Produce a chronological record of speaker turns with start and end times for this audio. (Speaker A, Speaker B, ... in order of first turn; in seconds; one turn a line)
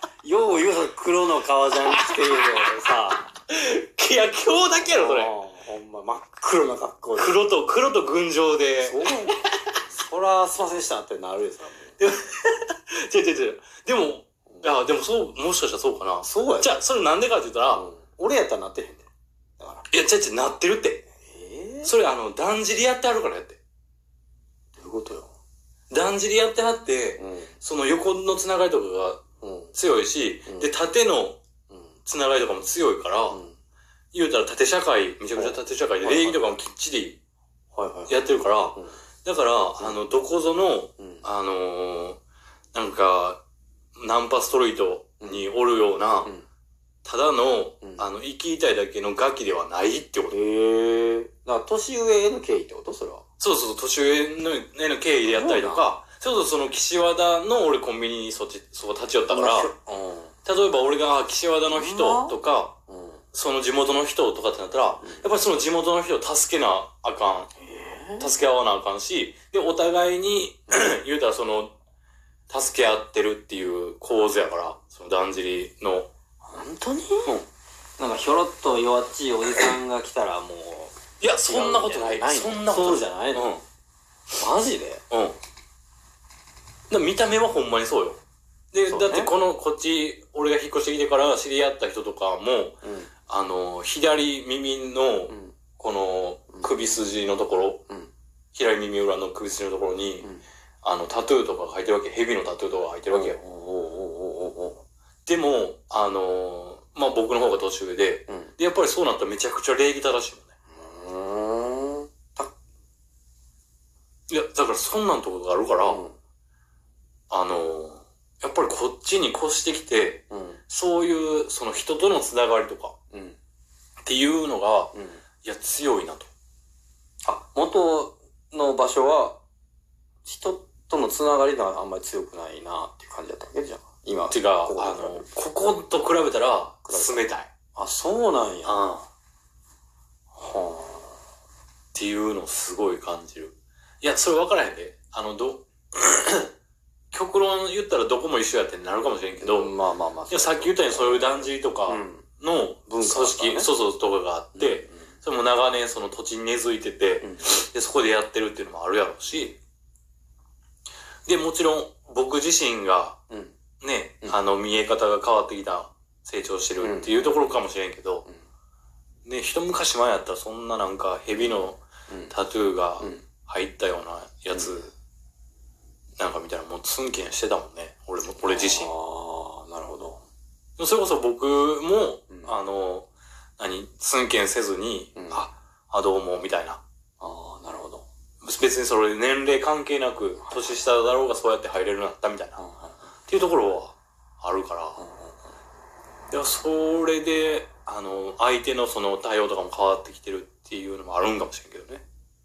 Speaker A: 0.2-3.3
Speaker B: 3.5-5.3
Speaker A: 4.9-7.5
Speaker B: 7.2-9.1
Speaker A: 8.8-11.9
Speaker B: 12.0-17.9
Speaker A: 14.5-14.8
Speaker A: 16.2-16.8
Speaker A: 17.7-19.1
Speaker A: 19.6-19.9
Speaker B: 19.9-21.1
Speaker A: 21.3-21.9
Speaker B: 21.8-23.6
Speaker A: 24.8-25.3
Speaker B: 25.9-29.2
Speaker A: 27.2-27.5
Speaker A: 29.4-29.7
Speaker B: 29.7-31.4
Speaker B: 32.0-33.4
Speaker A: 33.3-33.5
Speaker B: 34.1-37.2
Speaker A: 35.3-36.6
Speaker A: 37.7-38.9
Speaker B: 38.1-42.2
Speaker A: 41.0-41.2
Speaker B: 42.7-43.4
Speaker B: 44.0-46.3
Speaker B: 47.0-50.4
Speaker A: 50.3-53.2
Speaker B: 53.4-59.7
Speaker A: 55.2-55.9
Speaker A: 59.3-60.3
Speaker B: 60.4-62.8
Speaker A: 61.7-62.4
Speaker A: 62.9-63.2
Speaker B: 63.3-67.5
Speaker A: 65.0-65.2
Speaker A: 67.6-68.3
Speaker B: 68.2-71.7
Speaker B: 72.5-76.1
Speaker A: 76.4-77.3
Speaker A: 78.0-83.5
Speaker B: 81.2-83.6
Speaker A: 84.4-85.0
Speaker B: 85.1-85.4
Speaker B: 86.9-88.2
Speaker B: 88.7-97.8
Speaker A: 88.9-89.3
Speaker A: 92.8-93.1
Speaker A: 95.3-95.5
Speaker A: 96.5-96.8
Speaker B: 98.5-100.3
Speaker B: 100.8-103.4
Speaker A: 103.1-104.8
Speaker B: 105.2-110.5
Speaker A: 110.7-112.5
Speaker B: 114.3-116.0
Speaker A: 115.8-116.2
Speaker B: 117.3-123.0
Speaker A: 120.3-120.6
Speaker A: 123.1-123.4
Speaker B: 124.1-126.3
Speaker A: 124.9-125.2
Speaker A: 127.2-129.4
Speaker A: 130.2-135.2
Speaker B: 134.3-137.5
Speaker A: 136.8-138.8
Speaker B: 138.6-139.1
Speaker A: 140.3-141.2
Speaker B: 141.9-146.5
Speaker B: 147.1-149.7
Speaker A: 149.4-152.2
Speaker B: 150.3-159.6
Speaker A: 152.9-153.7
Speaker A: 154.5-155.1
Speaker B: 161.2-163.2
Speaker A: 163.3-163.5
Speaker B: 163.8-168.2
Speaker A: 166.8-167.6
Speaker B: 169.2-174.9
Speaker A: 171.4-172.3
Speaker A: 174.5-174.8
Speaker B: 176.2-178.9
Speaker A: 178.4-180.2
Speaker B: 180.8-186.8
Speaker A: 185.2-185.4
Speaker A: 187.2-188.0
Speaker B: 188.4-192.6
Speaker A: 192.6-193.0
Speaker B: 193.2-195.0
Speaker A: 195.0-195.4
Speaker B: 196.3-202.0